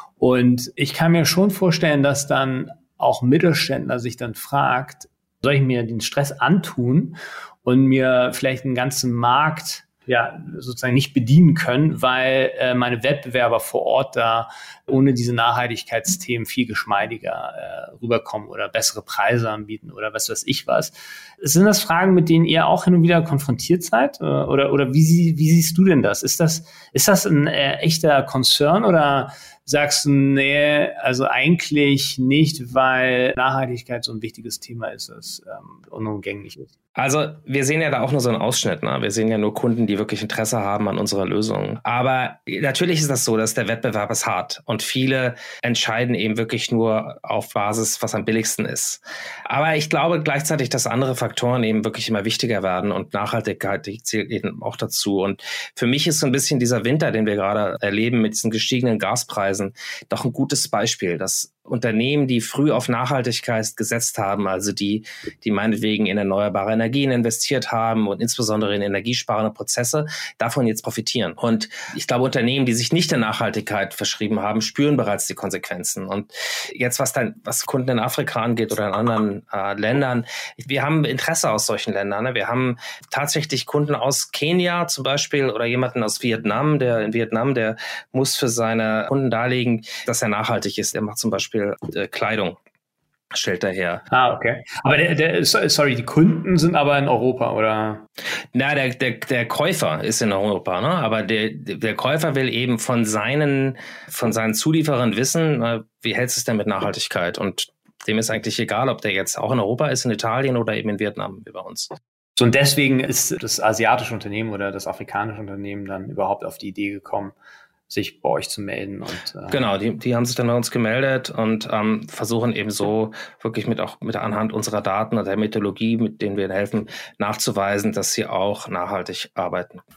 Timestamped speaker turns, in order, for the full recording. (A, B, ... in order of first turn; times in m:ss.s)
0:00.2-0:36.7 A
0:37.0-1:32.6 B
1:33.3-1:34.0 B
1:34.1-1:38.0 A
1:38.5-1:51.9 B
1:52.4-1:57.4 A
1:57.9-1:59.6 A
1:59.5-2:09.8 B